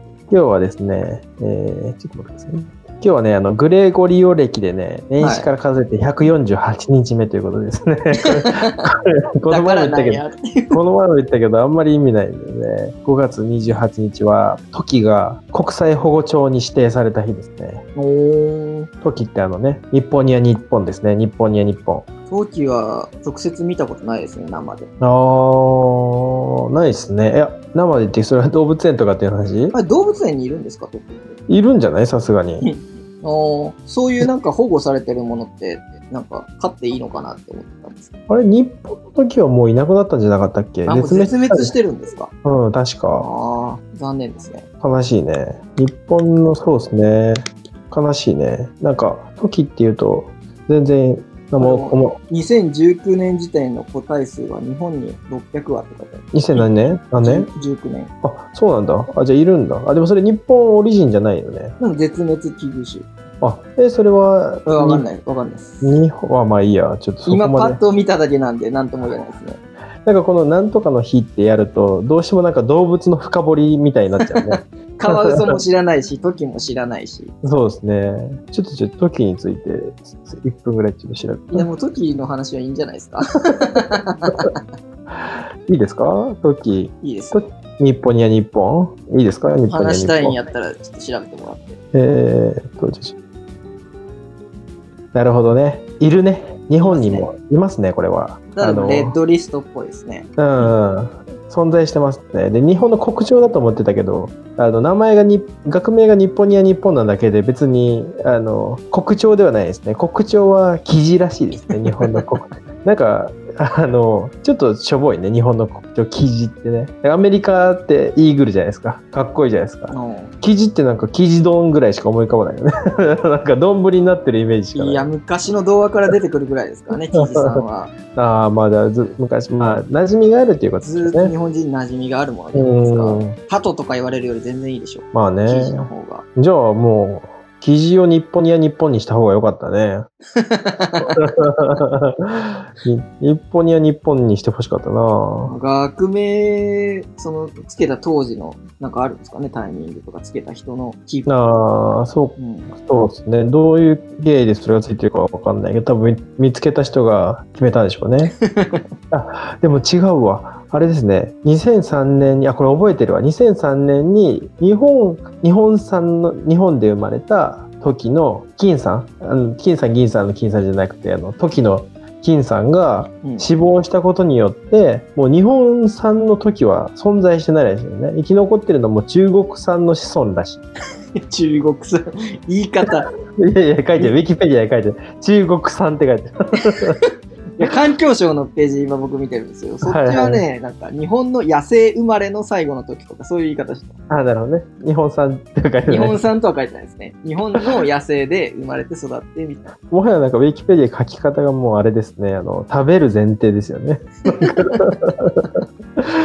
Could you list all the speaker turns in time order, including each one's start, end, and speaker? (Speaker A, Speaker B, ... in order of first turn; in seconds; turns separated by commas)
Speaker A: 0.3-17.8, Speaker B: 5.2-5.5, Speaker B: 8.2-8.8, Speaker B: 9.5-10.8, Speaker B: 17.9-18.9, Speaker A: 19.0-22.1, Speaker B: 22.3-24.9, Speaker A: 25.0-29.8, Speaker B: 29.7-31.4, Speaker A: 31.5-32.7, Speaker B: 32.6-38.1, Speaker A: 38.3-41.7, Speaker B: 40.8-42.3, Speaker A: 42.4-43.3, Speaker B: 43.1-44.7, Speaker A: 44.8-52.2, Speaker B: 51.6-56.7, Speaker A: 56.3-57.5, Speaker B: 57.2-58.1, Speaker A: 58.2-61.7, Speaker B: 61.8-63.1, Speaker A: 63.4-65.0, Speaker B: 64.7-66.0, Speaker A: 65.8-67.8, Speaker B: 67.3-69.6, Speaker A: 70.0-75.6, Speaker B: 74.3-77.3, Speaker A: 77.4-81.7, Speaker B: 81.5-84.6, Speaker A: 85.7-90.4, Speaker B: 87.0-87.4, Speaker B: 89.7-91.8, Speaker A: 91.9-93.1, Speaker A: 95.1-99.2, Speaker B: 96.8-97.3, Speaker B: 98.5-100.8, Speaker A: 100.4-125.0, Speaker B: 111.5-112.2, Speaker B: 119.9-120.3, Speaker B: 124.7-128.0, Speaker A: 127.1-131.3, Speaker B: 130.8-136.2, Speaker A: 132.5-133.4, Speaker A: 135.1-140.1, Speaker B: 140.3-141.2, Speaker A: 141.0-145.5, Speaker B: 145.5-151.6, Speaker A: 151.2-158.3, Speaker B: 152.4-152.7, Speaker B: 158.3-158.8, Speaker A: 159.1-180.6, Speaker B: 173.2-173.5, Speaker B: 181.2-183.1, Speaker A: 183.3-187.0, Speaker B: 186.8-194.0, Speaker A: 189.8-190.4, Speaker A: 194.1-196.2, Speaker B: 195.9-199.7, Speaker A: 199.8-205.5, Speaker B: 204.3-204.9